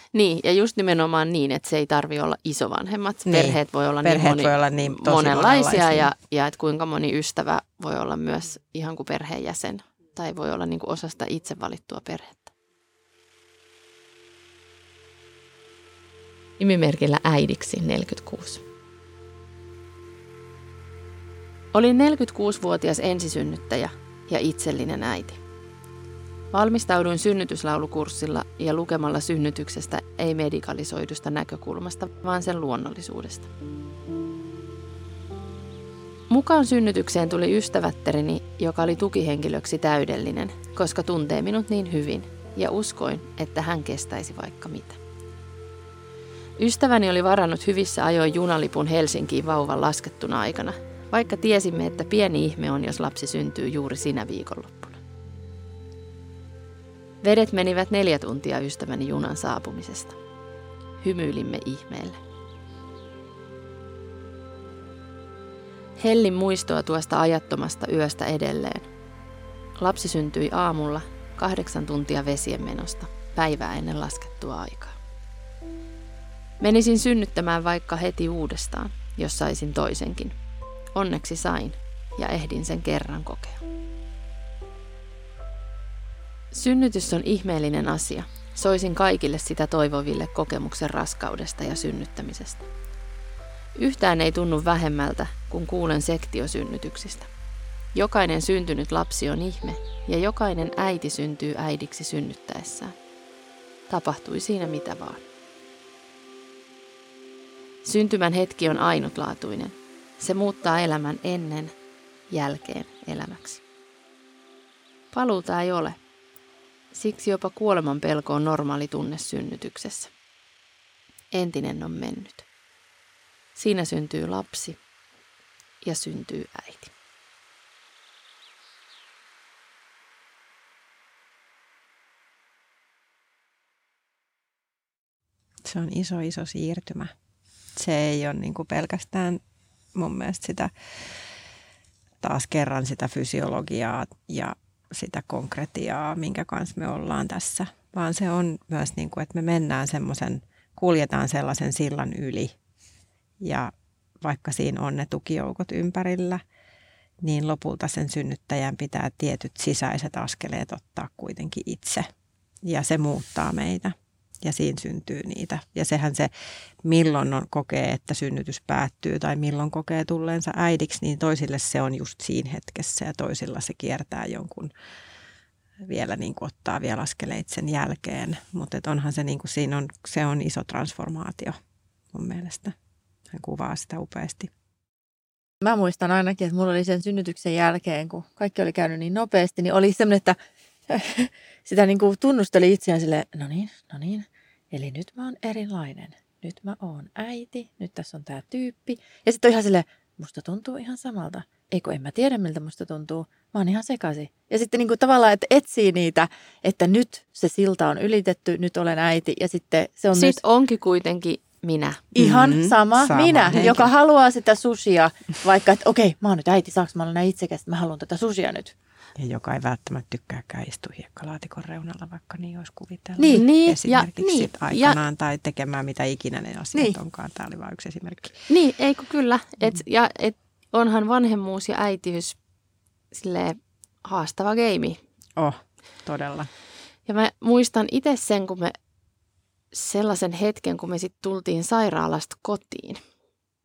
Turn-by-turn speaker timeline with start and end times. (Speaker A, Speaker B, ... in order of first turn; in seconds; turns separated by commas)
Speaker A: 0.1-12.5, Speaker B: 3.3-6.1, Speaker A: 16.6-18.6, Speaker A: 21.7-25.4, Speaker A: 26.5-33.5, Speaker A: 36.3-45.0, Speaker A: 46.6-55.0, Speaker A: 57.2-60.2, Speaker A: 61.0-62.2, Speaker A: 66.0-68.9, Speaker A: 69.8-75.0, Speaker A: 76.6-80.4, Speaker A: 81.0-83.6, Speaker A: 86.5-92.7, Speaker A: 93.8-97.3, Speaker A: 97.9-103.0, Speaker A: 103.9-105.2, Speaker A: 107.8-111.7, Speaker A: 112.3-113.6, Speaker A: 115.1-116.0, Speaker A: 116.9-120.1, Speaker A: 121.3-122.5, Speaker A: 123.6-124.8, Speaker A: 125.8-126.9, Speaker B: 135.6-137.1, Speaker B: 137.8-139.4, Speaker B: 139.9-140.7, Speaker B: 142.2-152.5, Speaker B: 153.4-156.4, Speaker B: 157.2-162.1, Speaker B: 162.6-166.3, Speaker B: 166.8-174.7, Speaker B: 175.8-181.6, Speaker B: 182.1-182.7, Speaker B: 183.3-184.5, Speaker C: 185.6-190.4, Speaker C: 190.9-210.4, Speaker A: 210.1-212.0, Speaker C: 212.1-218.7, Speaker B: 212.2-213.9, Speaker B: 219.2-228.4, Speaker C: 223.2-223.4, Speaker A: 223.3-225.0, Speaker A: 228.5-232.4, Speaker A: 233.1-235.0, Speaker B: 235.4-236.5, Speaker A: 237.1-238.7, Speaker A: 239.7-243.0